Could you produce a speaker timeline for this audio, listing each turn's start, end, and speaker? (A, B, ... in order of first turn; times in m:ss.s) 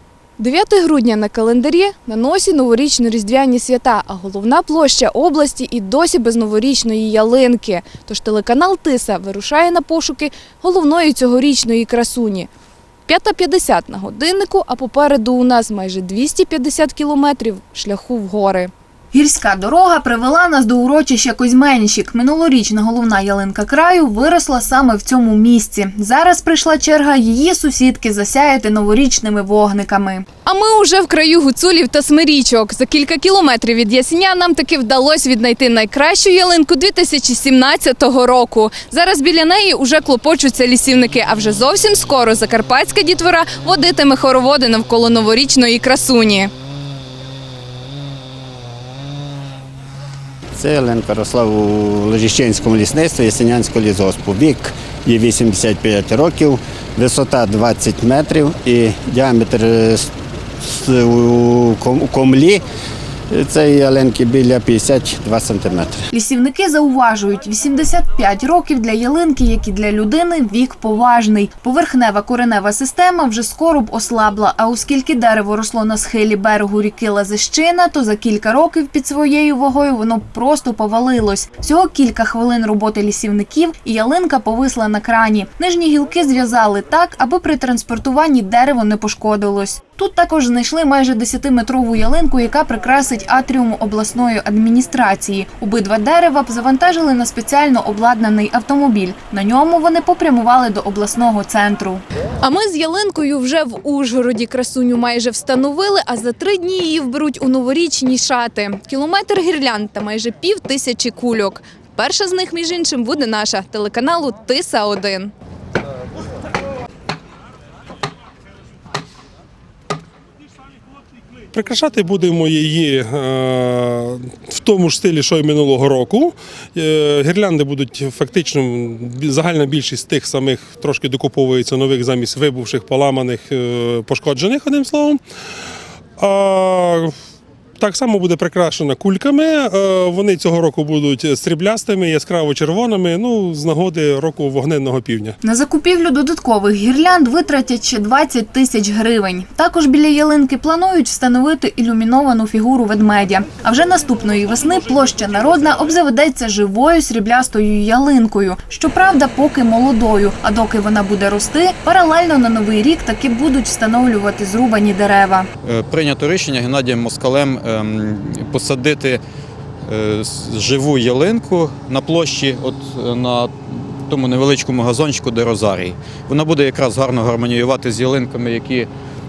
0:00.4-0:12.5 A
0:00.9-0:03.7 B
0:04.4-0:08.2 B
0:13.1-0:18.7 A
0:19.1-0:30.3 B
0:30.5-0:46.5 A
0:50.5-1:00.1 C
1:00.6-1:02.6 C
1:03.3-1:06.0 C
1:06.1-1:42.0 B
1:42.4-1:55.3 A
1:53.0-1:53.6 B
1:54.3-1:55.2 B
2:01.5-2:15.2 D
2:16.2-2:17.1 D
2:17.8-2:25.4 D
2:25.4-2:45.5 B
2:45.6-2:49.2 E
2:49.8-2:58.9 E